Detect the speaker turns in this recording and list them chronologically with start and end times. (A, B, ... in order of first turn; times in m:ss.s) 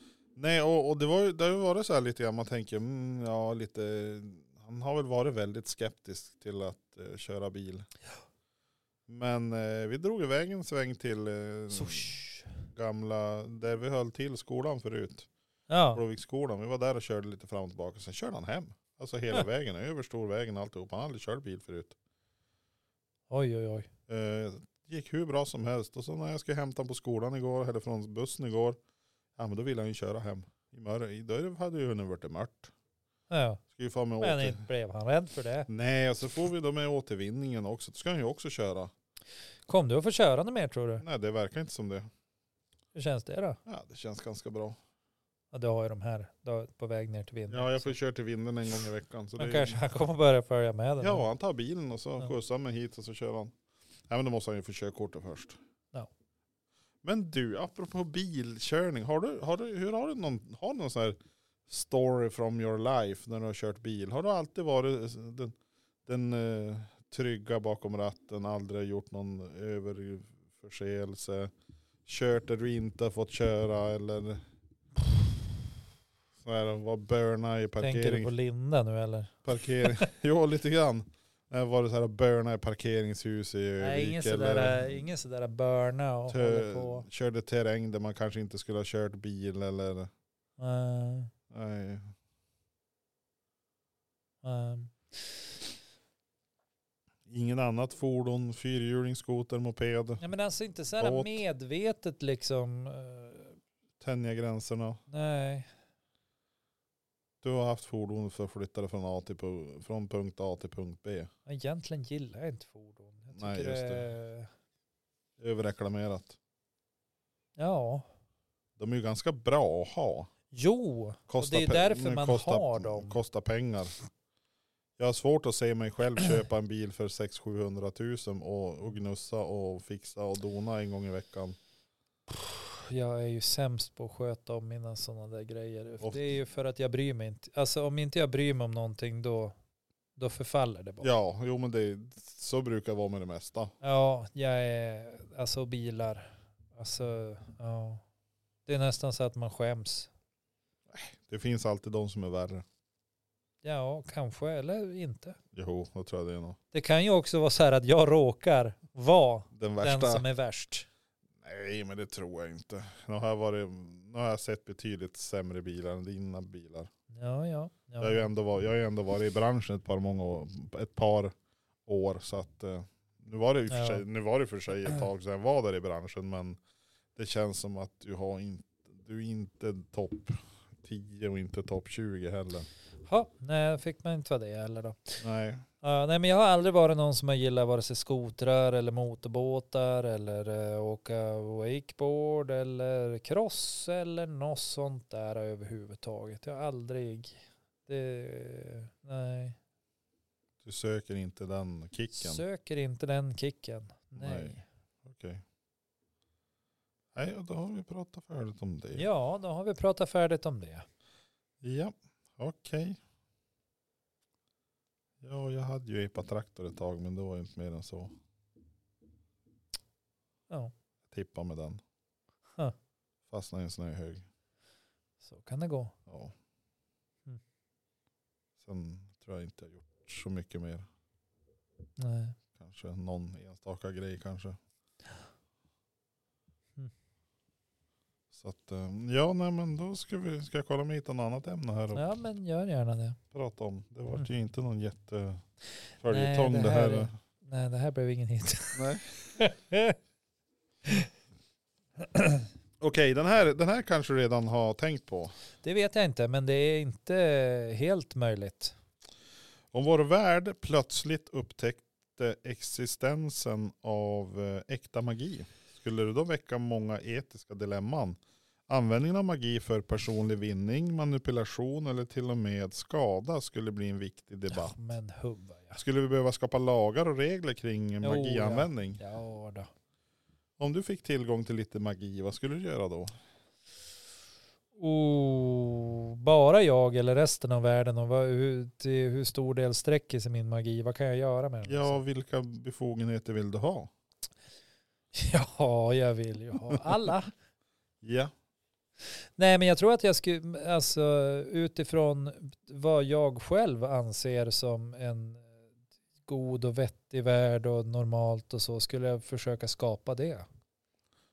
0:00.4-0:07.9 A
0:09.1-0:12.1 A
0:11.7-0:12.5 B
0:12.7-0:15.3 A
0:15.7-0:16.0 B
0:15.9-0:22.0 A
0:23.3-0:23.9 B
0:24.1-0:28.8 A
0:29.4-0:32.7 A
0:33.3-0:33.6 B
0:33.7-0:34.6 A
0:34.2-0:35.7 B
0:35.7-0:38.9 A
0:39.7-0:41.0 B
0:41.0-0:42.1 A
0:42.9-0:43.6 B
0:43.6-0:44.8 A
0:45.5-0:47.9 B
0:47.5-0:49.8 A
0:49.4-0:51.2 B
0:51.0-0:53.5 A
0:54.1-0:55.6 A
0:57.0-1:05.5 A
1:06.0-1:11.5 A
1:12.0-1:14.4 A
1:16.4-1:18.3 A
1:17.8-1:20.0 B
1:19.4-1:25.0 A
1:23.8-1:27.1 B
1:26.3-1:30.1 A
1:30.6-1:31.3 B
1:31.5-1:32.1 A
1:34.4-1:35.4 B
1:37.3-1:40.2 A
1:40.2-1:43.6 B
1:41.0-1:41.4 A
1:44.0-1:45.0 A
1:45.1-1:45.7 B
1:47.4-1:51.3 A
1:51.4-1:54.5 B
1:53.3-1:54.0 A
1:55.4-1:56.4 A
1:57.6-1:58.1 B
1:58.8-2:00.3 A
2:00.5-2:03.2 B
2:01.3-2:03.9 A
2:05.0-2:11.6 A
2:12.3-2:19.5 B
2:16.0-2:16.4 A
2:20.2-2:21.1 B
2:21.0-2:23.7 A
2:23.8-2:28.0 B
2:28.6-2:30.1 B
2:30.9-2:32.6 A
2:33.6-2:35.4 B
2:35.5-2:36.6 A
2:36.7-2:40.9 B
2:39.5-2:40.2 A
2:41.4-2:46.9 A
2:47.1-2:48.3 B
2:48.0-2:51.3 A
2:51.8-2:56.6 A
2:53.7-2:54.0 B
2:57.2-3:02.7 A
3:03.0-3:05.2 B
3:05.2-3:05.6 A
3:05.8-3:19.6 B
3:20.6-3:22.4 A
3:22.1-3:24.6 B
3:24.1-3:25.4 A
3:27.1-3:29.1 A
3:28.9-3:30.8 B
3:31.6-3:33.0 A
3:35.2-3:38.1 A
3:41.1-3:41.8 A
3:43.3-3:44.2 A
3:45.2-3:45.9 B
3:46.1-3:46.3 A
3:48.6-3:50.9 A
3:52.0-3:52.4 B
3:52.5-3:54.6 A
3:58.3-4:02.1 A
4:01.9-4:03.2 B
4:03.3-4:05.4 A
4:06.0-4:07.1 A
4:06.1-4:10.0 B
4:08.7-4:09.0 A
4:12.0-4:12.4 B
4:12.8-4:15.3 A
4:15.6-4:18.7 B
4:19.7-4:34.8 A
4:34.5-4:35.8 B
4:35.8-4:39.0 A
4:38.0-4:39.7 B
4:40.6-4:43.1 A
4:44.8-4:52.0 B
4:51.6-4:53.9 A
4:55.1-4:57.3 B
4:58.0-4:58.3 A
4:59.4-5:05.5 B
5:06.2-5:10.5 B